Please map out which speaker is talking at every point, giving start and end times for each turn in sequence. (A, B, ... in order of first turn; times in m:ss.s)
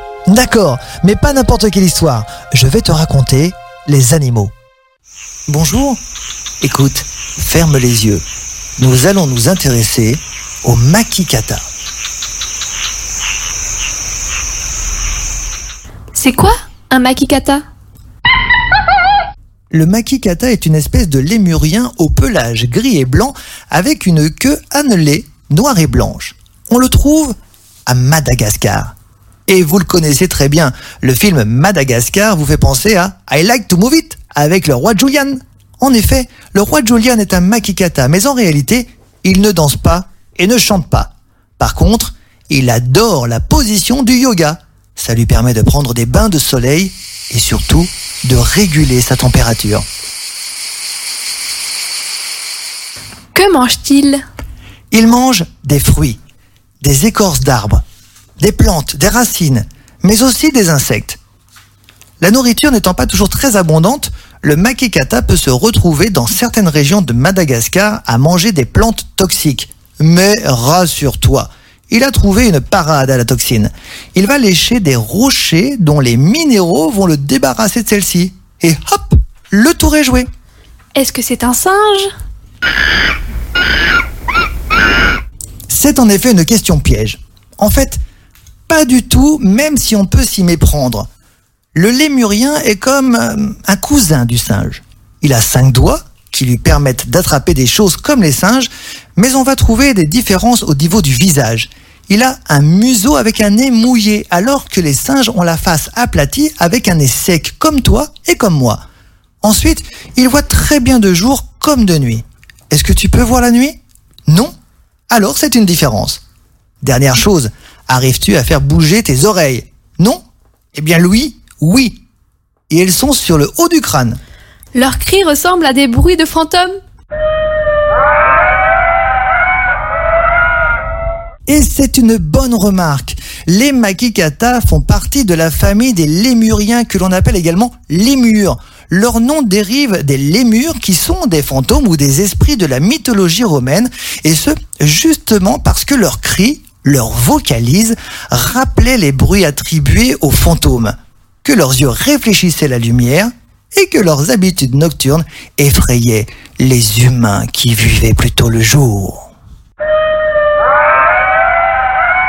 0:00.3-0:04.5 A
0:05.5-0:06.0 A
0:06.6-0:08.2 A
0:08.8-0:11.7 A
0:16.1-0:17.6 B
0:19.7-0:27.3 A
0:27.9-0:28.9 A
0:29.5-0:49.8 A
0:53.3-0:54.2 B
0:54.9-0:56.2 A
0:56.8-0:57.8 A
0:58.4-1:01.2 A
1:02.2-1:20.3 A
1:20.9-1:22.1 B
1:25.7-1:28.0 A
1:28.7-1:31.1 A
1:31.7-1:48.8 A
1:49.4-1:54.5 A
1:55.1-1:56.2 A
1:56.8-2:00.2 A
2:00.7-2:02.0 A
2:02.7-2:04.2 A
2:04.7-2:06.8 B
2:11.5-2:39.3 A